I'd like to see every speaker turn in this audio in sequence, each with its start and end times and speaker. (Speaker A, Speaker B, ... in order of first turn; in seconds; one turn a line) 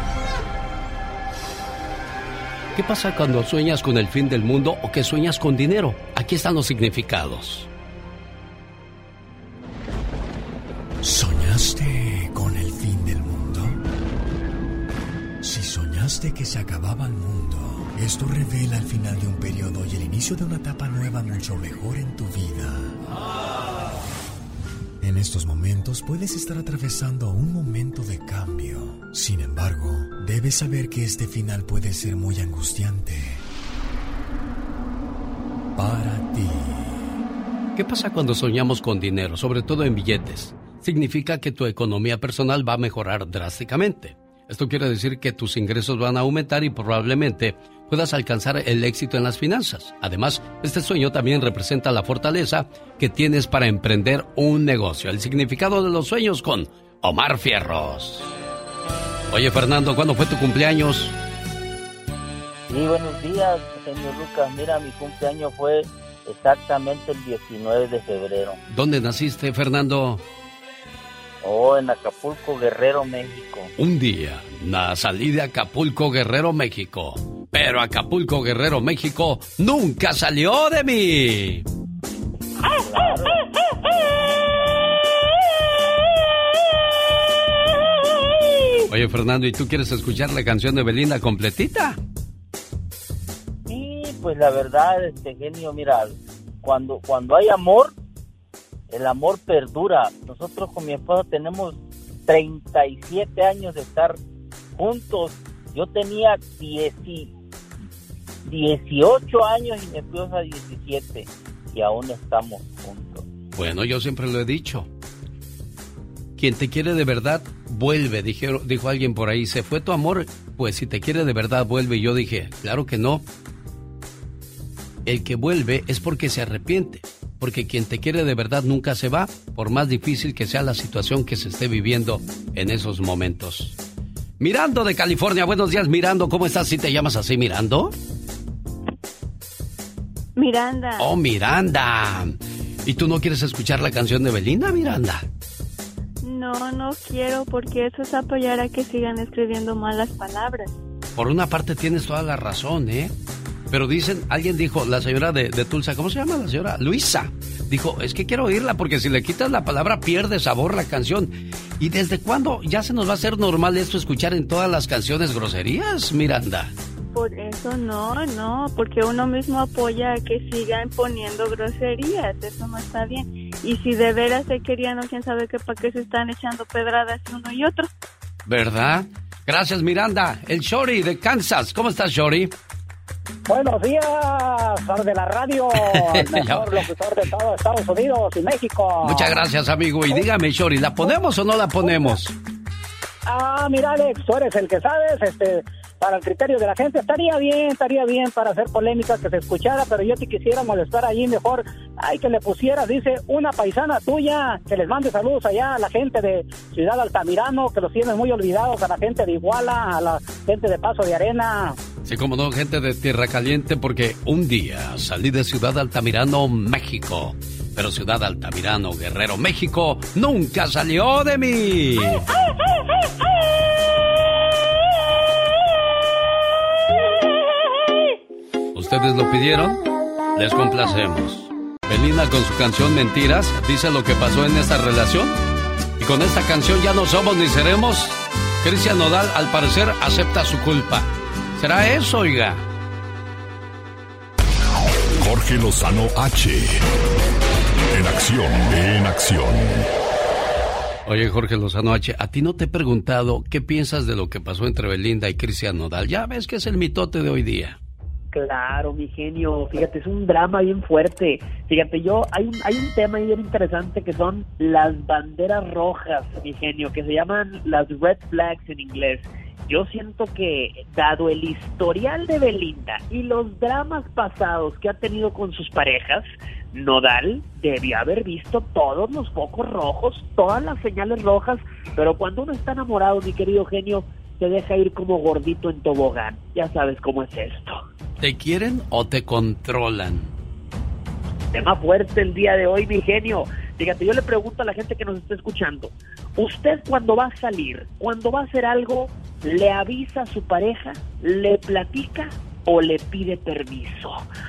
Speaker A: 2.7-7.7
Speaker B: 11.0-13.8
Speaker B: 15.4-23.0
Speaker B: 25.0-33.4
Speaker B: 35.8-37.1
Speaker A: 37.7-58.3
Speaker A: 59.3-61.1
Speaker C: 62.7-68.6
Speaker A: 68.7-70.2
Speaker C: 71.4-73.7
Speaker A: 73.8-81.7
Speaker C: 82.7-83.5
Speaker A: 88.9-92.0
Speaker C: 93.7-97.9
Speaker C: 98.9-104.2
Speaker C: 104.8-107.3
Speaker C: 108.4-113.3
Speaker A: 113.5-114.9
Speaker A: 116.4-123.2
Speaker A: 125.0-133.8
Speaker A: 134.4-137.9
Speaker D: 140.3-141.1
Speaker A: 141.0-145.2
Speaker D: 146.2-150.7
Speaker A: 151.2-153.1
Speaker A: 153.7-166.7
Speaker D: 167.1-177.9
Speaker A: 178.4-182.5
Speaker E: 183.5-189.4
Speaker A: 185.7-186.9
Speaker A: 189.0-192.3
Speaker E: 191.8-192.1
Speaker E: 193.2-211.8
Speaker A: 212.1-222.2
Speaker A: 228.7-229.8
Speaker A: 230.3-235.4
Speaker A: 236.0-242.6
Speaker F: 245.2-246.8
Speaker F: 247.9-249.9
Speaker A: 251.1-257.8
Speaker G: 258.3-287.8
Speaker A: 288.2-290.3
Speaker G: 291.5-304.2